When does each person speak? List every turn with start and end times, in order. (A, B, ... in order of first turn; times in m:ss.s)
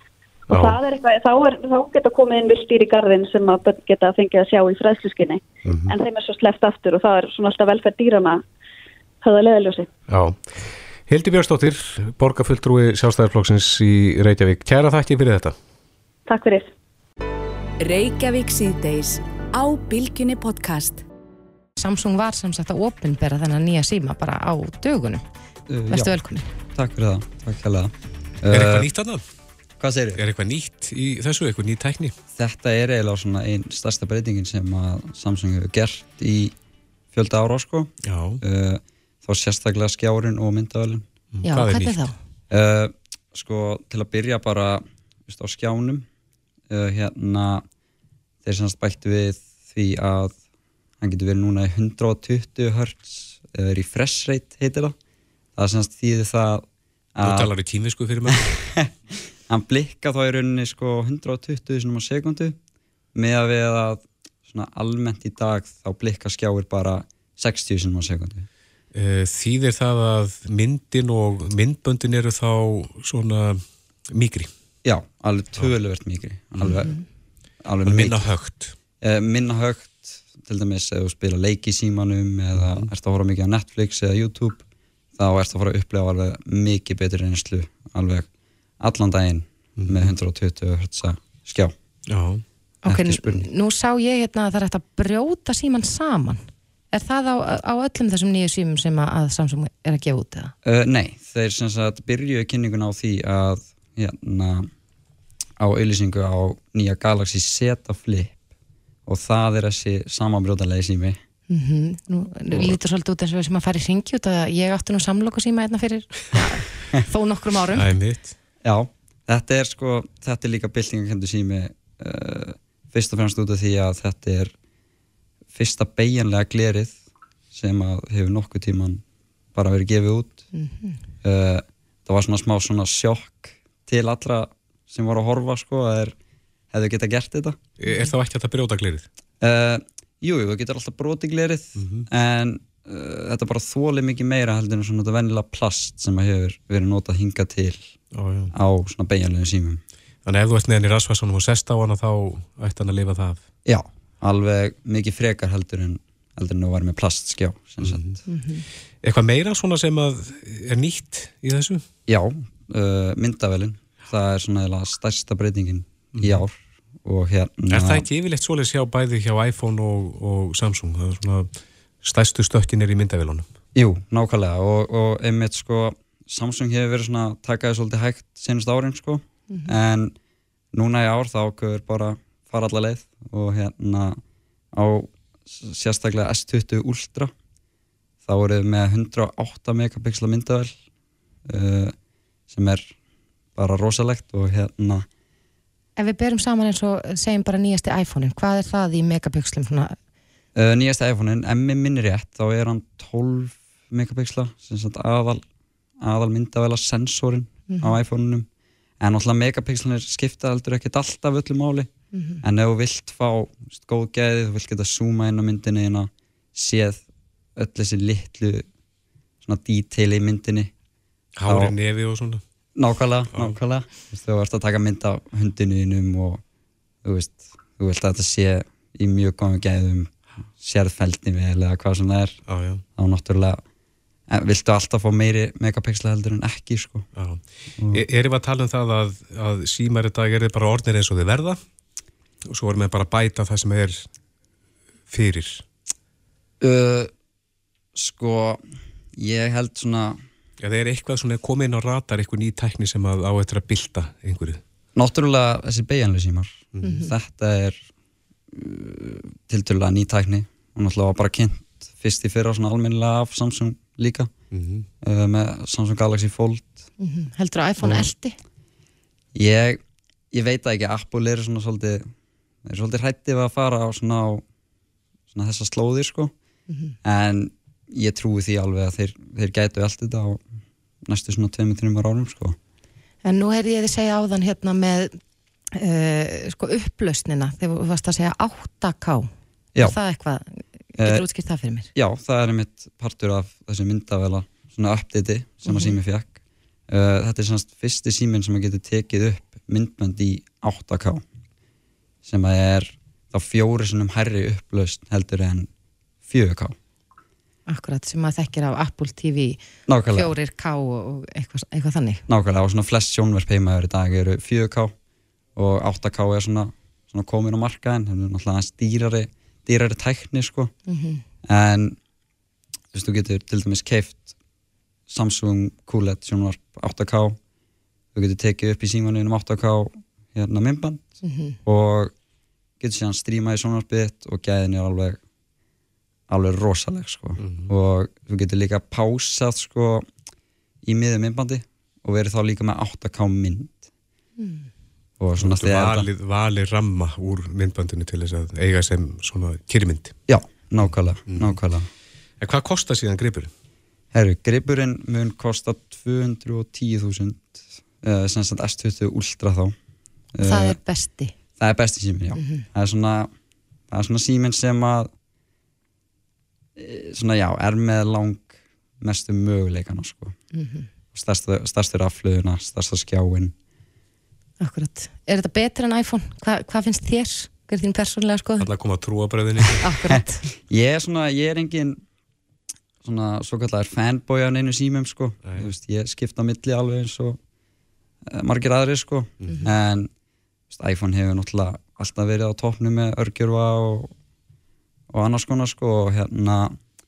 0:00.5-0:00.8 A
0:00.5-0:08.4 B
0:05.6-0:05.9 A
0:09.2-0:09.9 B
0:10.1-0:15.5 A
0:16.3-0:16.7 B
0:17.8-0:21.0 C
0:21.8-0:25.2 D
0:25.7-0:26.2 E
0:25.9-0:26.5 D
0:26.7-0:28.9 E
0:28.5-0:29.2 A
0:29.8-0:30.2 E
0:30.2-0:32.2 A
0:32.3-0:36.5 E
0:37.1-0:41.1 E
0:38.0-0:38.4 A
0:41.3-0:42.1 A
0:41.4-0:42.1 D
0:42.5-0:46.0 E
0:46.7-0:47.6 E
0:48.4-0:50.4 E
0:51.0-0:54.9 E
0:55.6-0:57.5 E
0:57.2-0:58.5 A
0:58.3-0:58.9 E
0:59.5-1:02.6 E
1:03.1-1:08.5 E
1:08.9-1:14.5 A
1:14.8-1:17.0 E
1:17.6-1:18.3 E
1:17.8-1:18.8 A
1:19.0-1:24.6 E
1:22.5-1:22.9 A
1:25.1-1:28.3 E
1:28.8-1:31.7 E
1:29.8-1:30.1 A
1:32.1-1:32.4 A
1:32.8-1:36.4 D
1:32.8-1:33.5 E
1:36.9-1:40.5 D
1:40.6-1:44.7 E
1:45.6-1:48.4 E
1:49.0-1:51.2 E
1:51.5-1:57.9 D
1:57.7-1:58.3 A
1:58.6-2:04.5 E
2:05.5-2:07.0 E
2:07.5-2:09.0 E
2:09.5-2:10.5 E
2:10.5-2:11.0 D
2:11.2-2:16.1 E
2:16.7-2:17.6 E
2:17.8-2:19.0 A
2:19.4-2:27.9 E
2:21.8-2:22.1 A
2:28.1-2:28.5 A
2:28.5-2:29.8 E
2:30.2-2:33.4 A
2:33.6-2:38.1 E
2:37.8-2:38.2 A
2:38.3-2:38.6 D
2:39.0-2:41.8 A
2:42.1-2:48.1 E
2:46.2-2:46.4 A
2:47.7-2:51.5 A
2:52.0-2:53.5 A
2:53.7-3:00.1 E
2:59.5-2:59.7 D
3:00.7-3:04.2 E
3:04.7-3:07.3 E
3:08.2-3:10.7 E
3:11.5-3:12.0 E
3:12.5-3:12.9 E
3:13.5-3:15.1 E
3:16.0-3:20.0 D
3:20.5-3:25.4 E
3:26.0-3:28.5 E
3:29.0-3:31.9 E
3:32.1-3:32.4 D
3:32.4-3:37.0 E
3:37.6-3:38.6 E
3:39.4-3:40.7 E
3:41.4-3:42.4 A
3:41.5-3:41.7 E
3:42.8-3:46.4 E
3:47.0-3:52.4 E
3:52.5-3:52.8 A
3:53.0-3:53.6 E
3:54.3-3:57.1 E
3:57.1-4:01.6 A
3:57.8-3:58.0 E
4:02.5-4:04.0 A
4:05.1-4:05.6 A
4:06.6-4:07.1 E
4:07.9-4:08.6 E
4:09.2-4:10.2 E
4:10.6-4:14.6 A
4:15.0-4:17.8 E
4:16.7-4:17.0 A
4:16.8-4:17.1 D
4:18.5-4:24.3 E
4:24.5-4:24.9 A
4:25.0-4:26.8 E
4:27.0-4:28.4 D
4:29.3-4:29.8 E
4:30.3-4:32.1 E
4:32.6-4:34.4 E
4:35.3-4:36.3 E
4:36.7-4:36.9 D
4:37.0-4:40.4 E
4:41.0-4:42.6 E
4:43.2-4:45.2 D
4:45.7-4:51.9 D
4:51.0-4:51.2 E
4:51.9-4:56.4 E
4:55.7-4:55.9 D
4:56.9-5:01.2 E
5:02.2-5:05.7 E
5:06.2-5:06.8 E
5:07.7-5:12.2 D
5:09.9-5:10.3 E
5:12.3-5:14.9 E
5:15.6-5:20.7 E
5:20.9-5:21.2 D
5:21.5-5:22.0 E
5:22.9-5:24.3 E
5:25.1-5:27.4 E
5:28.1-5:32.1 E
5:31.2-5:31.6 D
5:32.8-5:35.2 E
5:36.3-5:40.0 E
5:37.4-5:37.7 A
5:40.8-5:43.8 E
5:44.4-5:44.7 D
5:45.2-5:46.1 E
5:45.4-5:50.2 A
5:50.3-5:51.9 E
5:51.3-5:51.6 A
5:52.4-5:53.5 A
5:54.1-5:59.7 E
6:00.3-6:00.8 E
6:00.4-6:01.3 D
6:01.6-6:03.3 E
6:02.4-6:02.6 D
6:03.9-6:05.1 E
6:06.8-6:10.4 E
6:10.5-6:10.9 D
6:11.1-6:13.5 E
6:14.6-6:18.7 D
6:18.6-6:19.9 A
6:19.8-6:20.4 D
6:20.0-6:22.0 E
6:23.0-6:27.4 E
6:28.3-6:30.1 E
6:29.4-6:29.7 A
6:30.7-6:34.1 E
6:35.1-6:36.8 E